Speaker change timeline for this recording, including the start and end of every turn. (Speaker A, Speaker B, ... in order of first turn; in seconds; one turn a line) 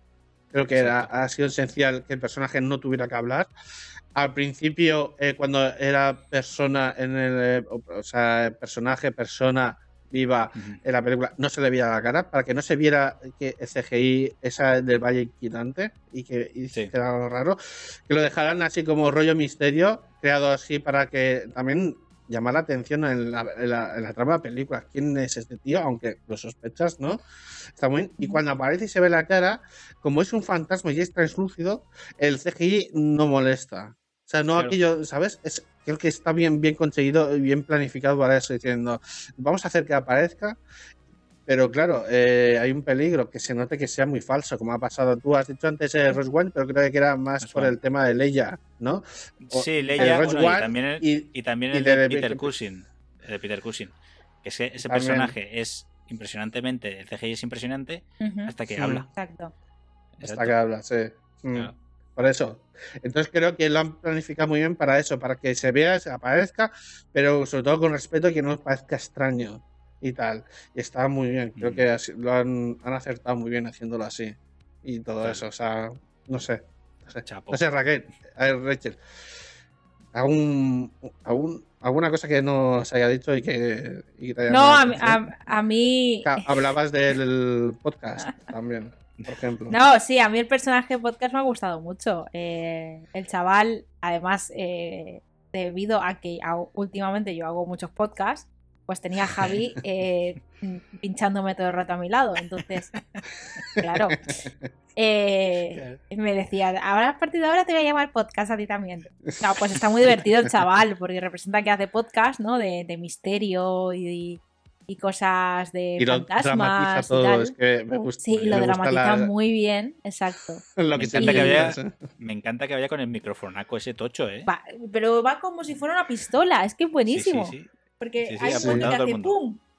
Speaker A: 0.5-3.5
Speaker B: 0.8-1.1
Speaker A: 4.2-27.2
Speaker A: 27.8-40.6
Speaker A: 41.5-52.5
Speaker B: 47.4-47.8
Speaker B: 49.4-59.1
Speaker A: 54.8-55.4
Speaker C: 58.2-58.5
Speaker A: 58.8-59.1
Speaker C: 59.2-59.5
Speaker B: 60.2-60.5
Speaker A: 60.2-79.0
Speaker B: 71.6-71.8
Speaker B: 77.2-77.6
Speaker A: 80.1-85.2
Speaker C: 84.5-86.6
Speaker A: 86.2-89.8
Speaker C: 89.7-103.0
Speaker C: 103.8-104.3
Speaker C: 105.0-117.5
Speaker A: 116.0-119.3
Speaker C: 118.2-121.6
Speaker B: 118.4-118.7
Speaker A: 120.8-121.9
Speaker B: 121.0-124.5
Speaker C: 124.5-129.6
Speaker B: 127.1-127.7
Speaker B: 128.2-129.3
Speaker A: 128.5-128.8